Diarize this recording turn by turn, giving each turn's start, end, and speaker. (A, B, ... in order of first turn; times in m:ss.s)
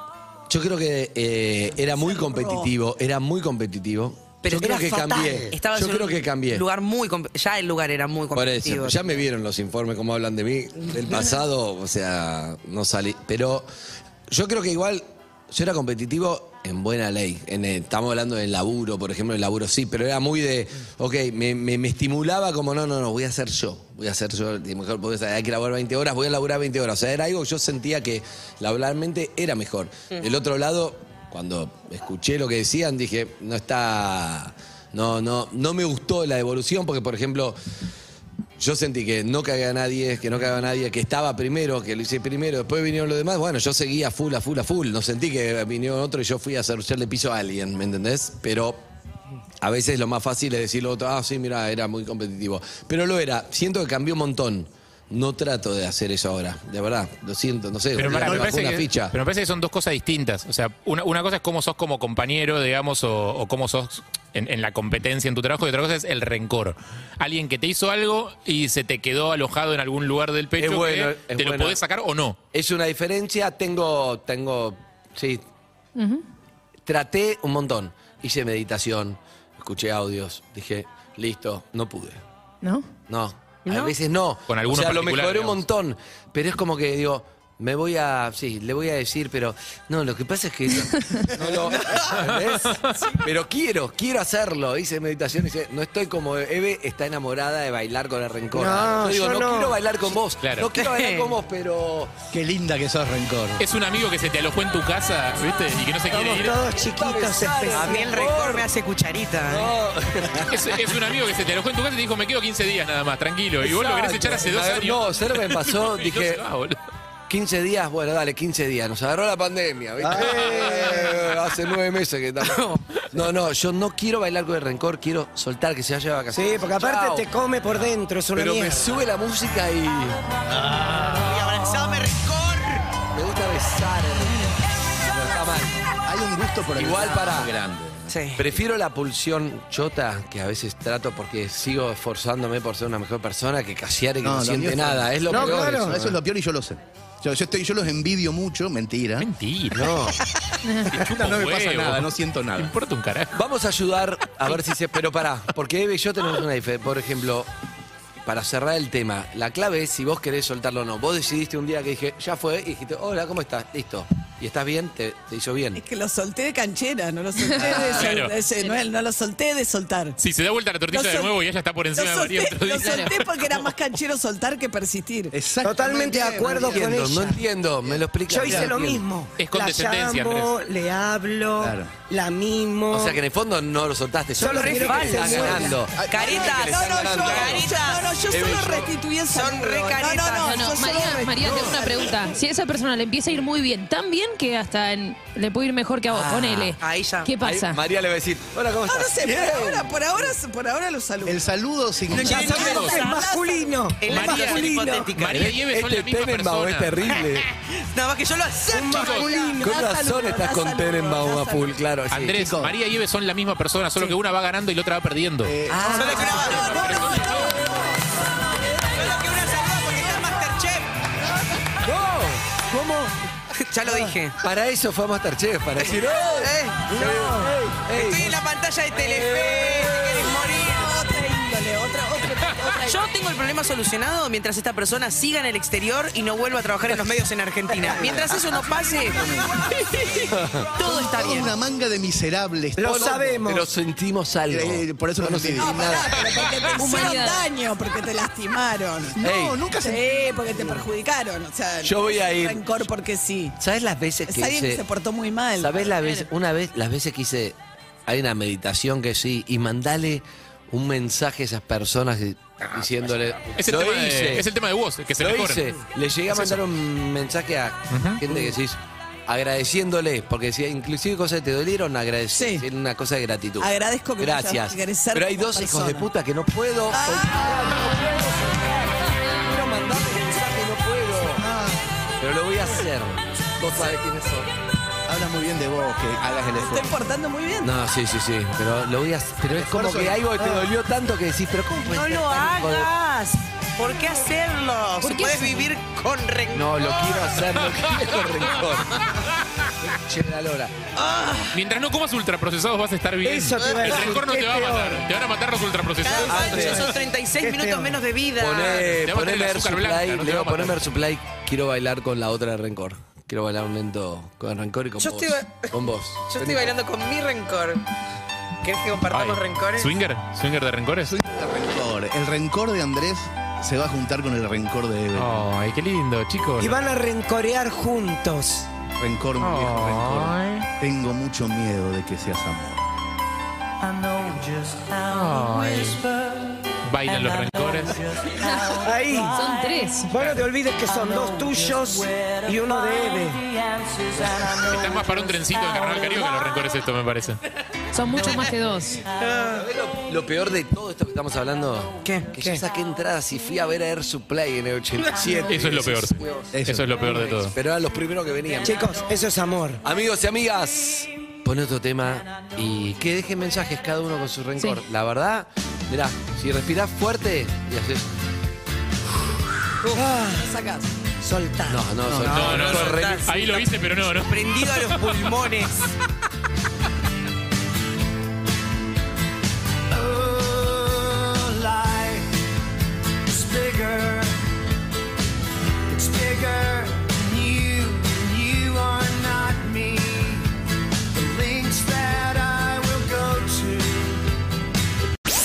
0:00.5-0:06.6 A
0:01.9-0:02.7 B
0:04.4-0:04.8 C
0:04.5-0:05.5 D
0:05.5-0:09.2 C
0:08.3-0:13.7 A
0:14.3-0:37.6 A
0:38.6-0:48.8 A
0:49.6-0:59.1 A
0:57.9-1:12.4 E
0:58.0-0:58.5 F
1:10.6-1:11.8 A
1:12.5-1:15.4 A
1:16.0-1:16.2 G
1:16.8-1:22.2 A
1:23.1-1:42.1 A
1:23.6-1:24.0 C
1:24.5-1:25.6 E
1:31.5-1:31.8 F
1:32.2-1:33.1 E
1:38.5-1:39.8 D
1:40.4-1:40.7 E
1:40.7-1:41.3 C
1:42.3-1:43.6 F
1:43.6-1:46.6 E
1:46.1-1:48.2 D
1:46.8-1:48.7 A
1:47.7-1:49.7 C
1:49.5-1:50.9 A
1:50.5-1:56.8 E
1:53.6-1:56.4 A
1:57.3-2:07.3 A
2:00.0-2:01.0 F
2:00.2-2:01.1 D
2:02.4-2:02.8 C
2:06.3-2:08.9 D
2:08.3-2:10.2 A
2:10.9-2:12.8 C
2:13.1-2:15.8 A
2:16.0-2:18.6 F
2:16.8-2:17.5 A
2:18.1-2:18.4 C
2:18.4-2:26.1 A
2:24.2-2:29.3 F
2:25.3-2:26.0 D
2:29.2-2:30.0 E
2:29.7-2:30.2 A
2:30.9-2:32.1 E
2:30.9-2:32.7 F
2:32.6-2:33.4 E
2:33.3-2:37.5 A
2:38.2-2:45.8 A
2:45.8-2:50.2 B
2:47.6-2:48.0 F
2:47.7-2:48.4 E
2:50.2-2:53.6 E
2:50.9-2:51.3 B
2:51.9-2:55.3 B
2:55.3-2:57.3 F
2:55.6-2:57.4 D
2:56.7-2:59.0 A
2:57.9-2:58.8 F
2:58.3-3:03.2 D
2:59.4-3:00.5 E
3:01.6-3:01.9 F
3:02.9-3:08.9 A
3:04.4-3:05.8 D
3:04.4-3:08.0 C
3:05.9-3:06.7 F
3:06.7-3:12.3 B
3:09.3-3:10.6 C
3:10.4-3:17.8 G
3:16.1-3:16.8 A
3:16.8-3:17.3 C
3:17.4-3:20.3 A
3:18.8-3:21.4 B
3:21.2-3:22.5 F
3:22.1-3:25.2 D
3:22.1-3:22.9 E
3:22.2-3:25.5 C
3:22.2-3:23.7 B
3:24.1-3:27.0 E
3:25.3-3:27.4 A
3:27.1-3:29.4 C
3:28.7-3:29.8 D
3:28.8-3:31.8 B
3:28.9-3:29.3 E
3:29.6-3:32.5 A
3:32.1-3:35.5 E
3:32.4-3:32.7 F
3:35.4-3:37.8 F
3:35.7-3:36.7 A
3:35.9-3:37.0 C
3:36.4-3:37.4 B
3:36.8-3:37.6 E
3:38.8-3:40.9 C
3:41.8-3:43.1 A
3:43.6-3:44.4 C
3:44.4-3:48.4 A
3:46.4-3:50.9 C
3:46.9-3:47.5 D
3:49.4-3:53.0 B
3:52.8-3:59.3 C
3:57.8-3:59.7 F
4:00.3-4:00.7 A
4:00.8-4:01.5 C
4:00.8-4:03.2 F
4:02.8-4:03.7 D
4:02.8-4:06.1 A
4:04.5-4:06.1 F
4:05.6-4:09.2 B
4:06.2-4:06.5 E
4:06.8-4:07.5 G
4:09.1-4:10.7 F
4:09.2-4:09.6 A
4:09.8-4:13.6 B
4:11.8-4:12.6 A
4:13.6-4:14.8 A
4:14.3-4:15.8 B
4:15.6-4:24.5 A
4:16.0-4:16.2 G
4:23.6-4:25.7 E
4:25.2-4:41.4 A
4:26.3-4:26.6 E
4:27.9-4:28.2 E
4:32.3-4:32.6 B
4:33.6-4:36.0 B
4:36.9-4:37.5 B
4:37.4-4:38.1 F
4:41.4-4:41.8 F
4:42.2-4:44.5 A
4:45.1-4:46.9 F
4:46.6-4:47.7 B
4:47.6-4:52.9 A
4:49.4-4:50.3 F
4:51.8-4:57.6 C
4:56.5-4:59.0 A
4:59.8-5:00.7 A
5:01.0-5:01.6 C
5:01.5-5:06.9 E
5:03.2-5:05.0 D
5:03.6-5:03.9 C
5:06.0-5:09.0 C
5:06.1-5:06.9 A
5:07.4-5:07.9 D
5:08.4-5:16.8 A
5:09.0-5:10.8 E
5:15.0-5:15.7 C
5:16.3-5:17.8 C
5:18.6-5:19.9 C
5:19.1-5:21.1 E
5:21.0-5:25.5 F
5:25.2-5:26.8 E
5:26.6-5:28.7 D
5:29.0-5:32.8 F
5:29.4-5:30.6 E
5:35.1-5:36.0 E
5:36.8-5:38.0 E
5:38.3-5:40.1 G
5:38.8-5:39.4 D
5:40.1-5:43.5 D
5:40.1-5:40.4 E
5:44.2-5:45.2 D
5:44.6-5:47.4 E
5:47.9-5:49.0 G
5:49.2-5:49.6 C
5:49.5-5:59.0 A
5:52.0-5:52.3 C
5:55.0-5:55.3 C
5:55.4-5:57.5 E
5:56.5-5:56.9 F
5:58.6-5:59.8 D
5:59.8-6:08.1 A
6:09.8-6:10.5 D
6:09.9-6:10.9 B
6:11.2-6:11.8 D
6:11.7-6:13.3 A
6:12.0-6:12.4 F
6:12.2-6:15.9 C
6:12.3-6:15.3 E
6:20.0-6:22.2 H
6:23.3-6:24.2 H
6:25.9-6:30.4 H
6:31.2-6:33.8 H